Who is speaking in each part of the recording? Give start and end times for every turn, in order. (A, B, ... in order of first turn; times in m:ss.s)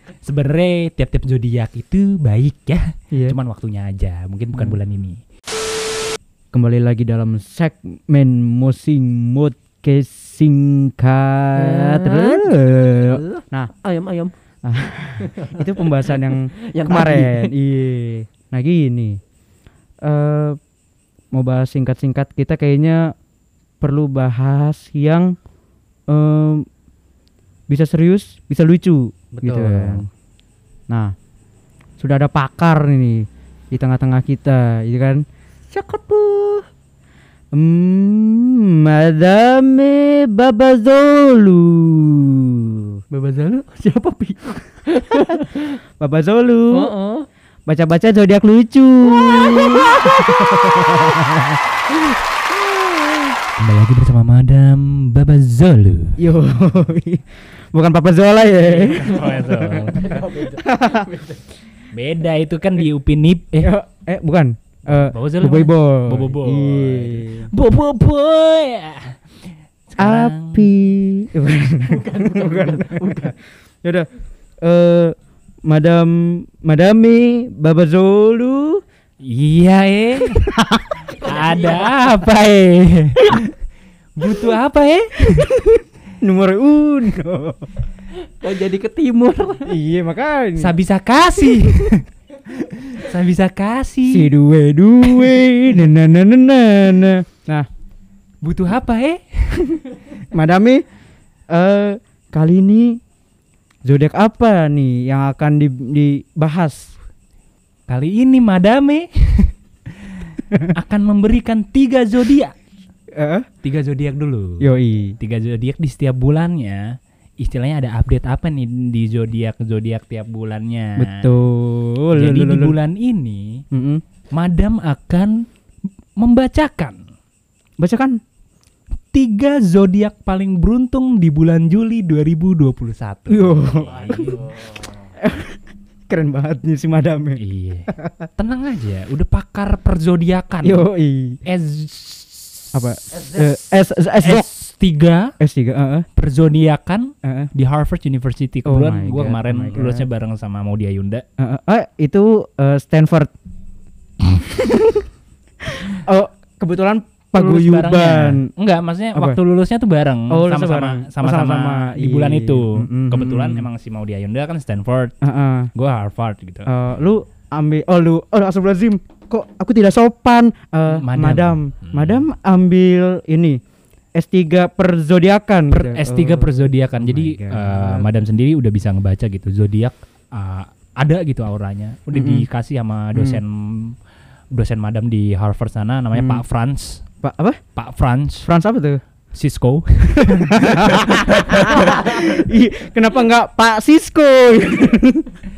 0:00.2-0:05.2 A
0:03.1-0:03.4 B
0:06.5-0:13.7 B
0:11.6-0:14.3 C
0:14.6-0:19.2 B
0:15.2-0:17.5 C
0:20.0-0:20.6 B
0:21.3-0:23.1 B
0:23.8-0:25.4 B
0:26.1-0:26.7 B
0:27.7-0:30.1 B
0:29.3-0:30.1 C
0:32.0-0:35.2 B
0:35.7-0:36.7 C
0:37.5-0:43.0 B
0:43.1-0:45.8 C
0:46.0-0:46.9 B
0:46.7-0:47.3 C
0:47.7-0:51.6 B
0:49.1-0:50.4 C
0:53.6-0:56.2 A
0:56.2-1:00.1 B
0:58.6-1:00.2 A
0:59.0-1:01.5 C
1:00.6-1:01.0 B
1:01.9-1:03.7 A
1:03.6-1:07.5 B
1:04.9-1:09.2 A
1:09.9-1:10.7 A
1:10.0-1:14.1 B
1:11.8-1:13.4 C
1:14.6-1:18.8 B
1:19.2-1:20.5 A
1:20.5-1:21.0 B
1:21.1-1:23.5 A
1:21.1-1:22.0 C
1:24.2-1:25.5 A
1:25.3-1:27.7 B
1:28.3-1:29.8 C
1:29.6-1:30.7 B
1:30.6-1:34.3 A
1:34.1-1:37.7 B
1:35.1-1:35.4 A
1:38.4-1:39.7 A
1:40.3-1:40.8 B
1:41.5-1:43.0 B
1:43.9-1:46.9 B
1:47.9-1:52.5 A
1:53.2-1:53.5 B
1:53.6-1:54.6 A
1:54.6-1:55.2 B
1:55.2-1:56.8 A
1:57.4-2:01.2 A
2:01.0-2:02.8 B
2:02.1-2:03.5 A
2:03.7-2:04.0 B
2:04.3-2:05.3 A
2:06.2-2:07.0 A
2:07.8-2:08.2 B
2:09.1-2:14.6 A
2:13.3-2:14.4 B
2:14.1-2:14.9 C
2:15.2-2:18.3 B
2:17.4-2:20.8 A
2:20.6-2:21.4 B
2:21.4-2:22.8 A
2:22.7-2:24.5 B
2:24.2-2:25.3 A
2:25.4-2:26.1 B
2:26.2-2:31.2 A
2:27.2-2:27.5 B
2:28.6-2:30.1 B
2:31.4-2:33.3 B
2:34.4-2:35.0 B
2:35.9-2:38.5 B
2:37.3-2:45.1 A
2:40.3-2:43.7 B
2:45.2-2:45.7 B
2:45.7-2:46.7 A
2:46.7-2:53.6 B
2:50.9-2:52.2 A
2:54.2-2:58.1 B
2:55.7-3:04.0 A
3:02.1-3:02.5 B
3:03.2-3:03.4 B
3:04.5-3:07.0 A
3:06.1-3:06.4 B
3:07.2-3:07.6 B
3:07.8-3:08.5 A
3:08.4-3:09.0 B
3:09.3-3:12.4 A
3:10.1-3:15.3 B